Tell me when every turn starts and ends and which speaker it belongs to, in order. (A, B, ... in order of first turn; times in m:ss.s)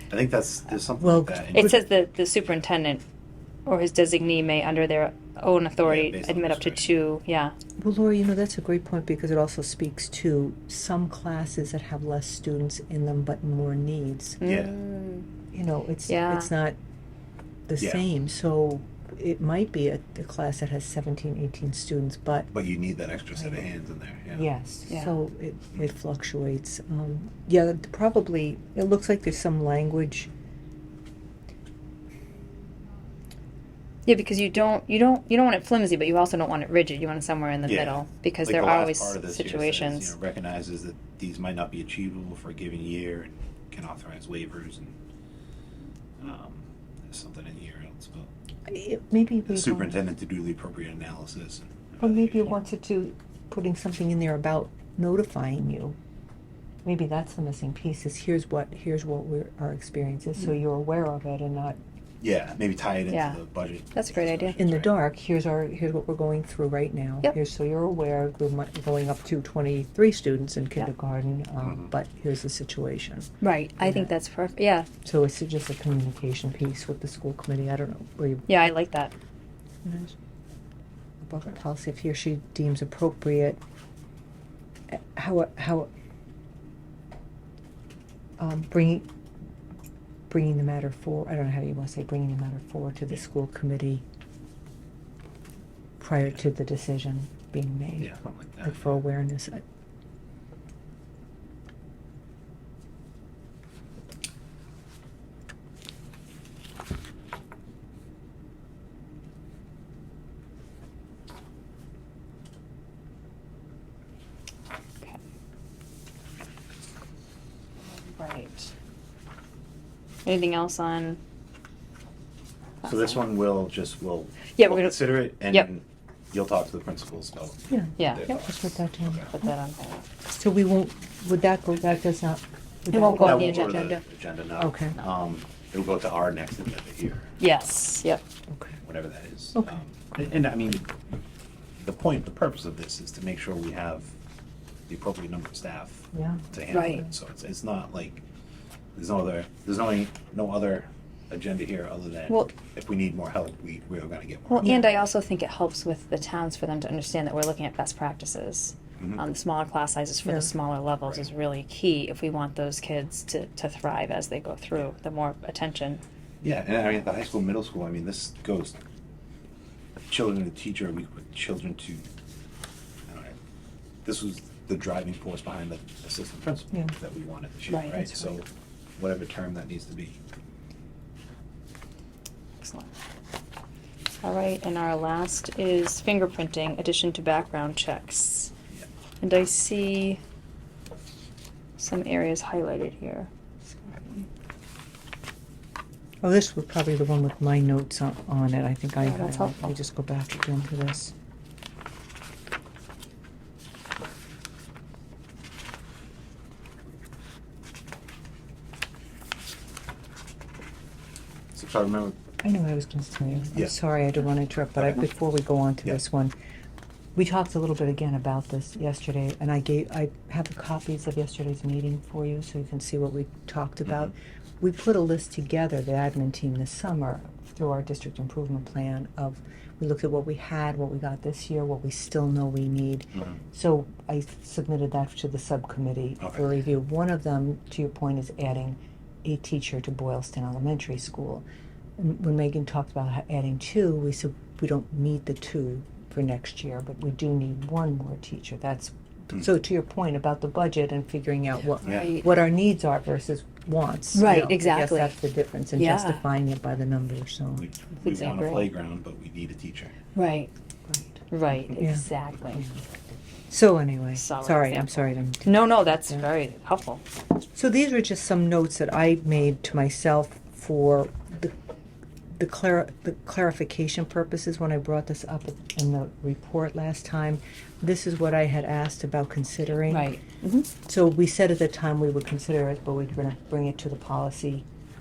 0:00.1-0:01.8 A
0:01.0-0:01.8 B
0:01.5-0:03.0 C
0:03.6-0:07.5 C
0:05.8-0:06.9 A
0:07.8-0:14.4 B
0:14.4-0:14.8 A
0:14.4-0:15.2 C
0:15.5-0:16.8 B
0:16.1-0:16.5 C
0:17.7-0:22.5 B
0:22.5-0:24.5 A
0:24.3-0:30.3 B
0:34.0-0:40.1 C
0:37.6-0:44.9 A
0:46.2-0:48.3 A
0:48.7-0:50.0 B
0:49.5-0:52.5 A
0:52.0-0:56.0 B
0:56.8-1:01.8 B
1:02.2-1:04.9 A
1:03.1-1:03.4 C
1:03.9-1:04.6 C
1:04.6-1:14.1 B
1:13.4-1:14.9 C
1:15.0-1:18.7 B
1:18.5-1:19.1 C
1:19.8-1:20.1 B
1:21.2-1:23.6 B
1:24.9-1:25.9 B
1:28.4-1:29.1 B
1:30.3-1:34.0 B
1:36.0-1:38.1 B
1:38.0-1:38.9 A
1:38.6-1:39.6 B
1:57.9-1:58.7 C
2:00.2-2:01.2 C
2:02.8-2:03.2 C
2:02.8-2:09.3 A
2:04.5-2:05.7 C
2:07.7-2:09.3 B
2:08.0-2:08.3 C
2:09.3-2:10.1 C
2:10.3-2:14.0 B
2:12.9-2:14.0 C
2:12.9-2:17.4 A
2:14.6-2:15.0 B
2:17.4-2:18.2 C
2:18.5-2:18.8 B
2:18.8-2:20.9 A
2:21.8-2:24.1 A
2:24.9-2:28.2 A
2:26.1-2:26.5 B
2:26.7-2:27.0 C
2:28.9-2:34.8 A
2:34.5-2:46.0 C
2:46.4-2:48.8 A
2:50.1-2:52.0 A
2:53.1-2:53.4 A
2:54.0-2:58.5 A
2:57.7-2:58.3 C
2:59.0-3:00.2 A
3:02.6-3:02.9 C
3:04.2-3:08.5 C
3:09.2-3:10.2 C
3:11.8-3:13.3 C
3:13.9-3:14.2 C
3:16.2-3:21.1 B
3:19.0-3:19.7 C
3:31.5-3:32.2 A
3:32.4-3:36.3 B
3:34.8-3:35.0 A
3:37.1-4:01.4 B
3:56.2-3:56.4 A
4:02.0-4:17.6 B
4:11.8-4:12.2 A
4:11.8-4:12.2 C
4:14.1-4:15.1 C
4:15.7-4:16.2 C
4:17.6-4:19.9 A
4:18.0-4:18.7 C
4:20.1-4:20.5 C
4:20.9-4:21.2 B
4:21.3-4:22.7 C
4:21.8-4:22.0 B
4:23.5-4:26.2 B
4:24.1-4:27.0 C
4:27.5-4:31.5 B
4:32.3-4:40.1 B
4:39.9-4:40.7 C
4:40.8-4:44.6 B